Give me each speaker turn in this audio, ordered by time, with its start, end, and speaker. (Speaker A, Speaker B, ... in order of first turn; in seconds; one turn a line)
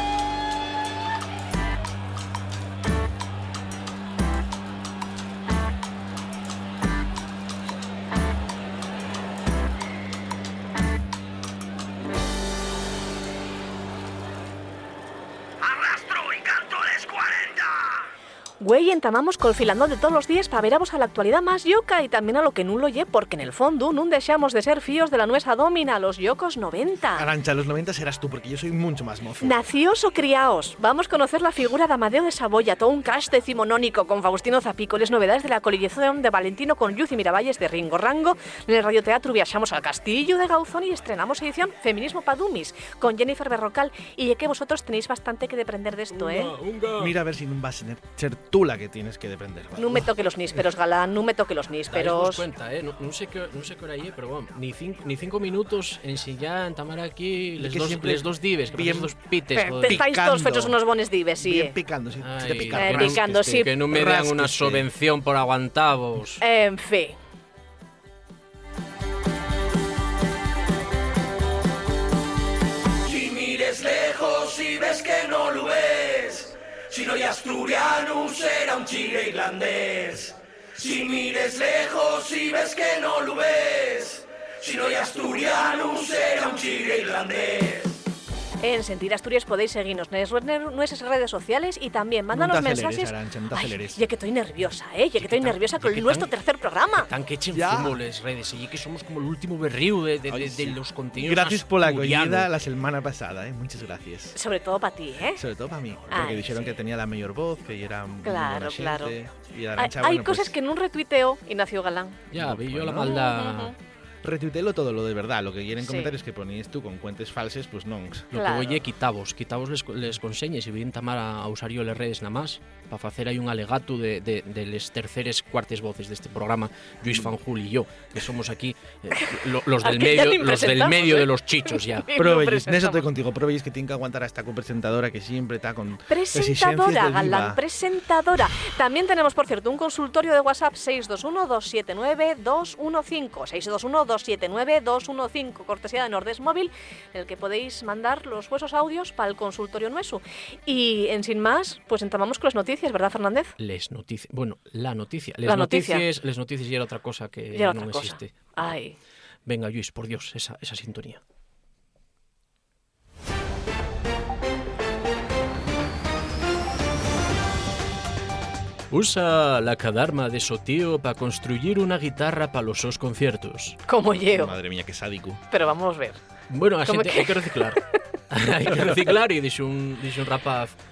Speaker A: 18.6-27.3
Speaker B: 27.2-29.6
Speaker A: 29.4-46.5
Speaker C: 46.2-47.1
Speaker B: 47.0-50.1
Speaker A: 49.8-52.4
Speaker C: 51.9-60.0
Speaker B: 57.6-59.2
Speaker A: 59.5-61.8
Speaker B: 59.8-60.8
Speaker B: 61.4-64.9
Speaker C: 62.2-66.4
Speaker A: 62.7-63.7
Speaker A: 66.4-67.2
Speaker D: 73.1-87.9
Speaker A: 88.6-97.1
Speaker B: 92.3-94.0
Speaker C: 95.2-96.3
Speaker C: 97.0-102.5
Speaker B: 97.5-98.0
Speaker B: 100.3-104.4
Speaker A: 104.3-105.4
Speaker B: 105.3-110.6
Speaker A: 106.1-106.8
Speaker A: 108.2-109.2
Speaker A: 109.8-112.2
Speaker C: 112.3-113.7
Speaker B: 112.3-113.3
Speaker B: 114.2-118.3
Speaker A: 115.8-116.1
Speaker C: 118.3-132.1
Speaker A: 118.3-118.8
Speaker A: 129.1-133.1
Speaker B: 132.2-137.6
Speaker A: 136.1-153.6
Speaker C: 153.6-158.6
Speaker A: 155.4-156.1
Speaker A: 157.5-159.0
Speaker C: 159.4-161.2
Speaker C: 168.9-173.8
Speaker A: 173.9-174.6
Speaker B: 174.3-175.4
Speaker A: 175.5-176.2
Speaker C: 176.5-180.8
Speaker A: 176.8-178.0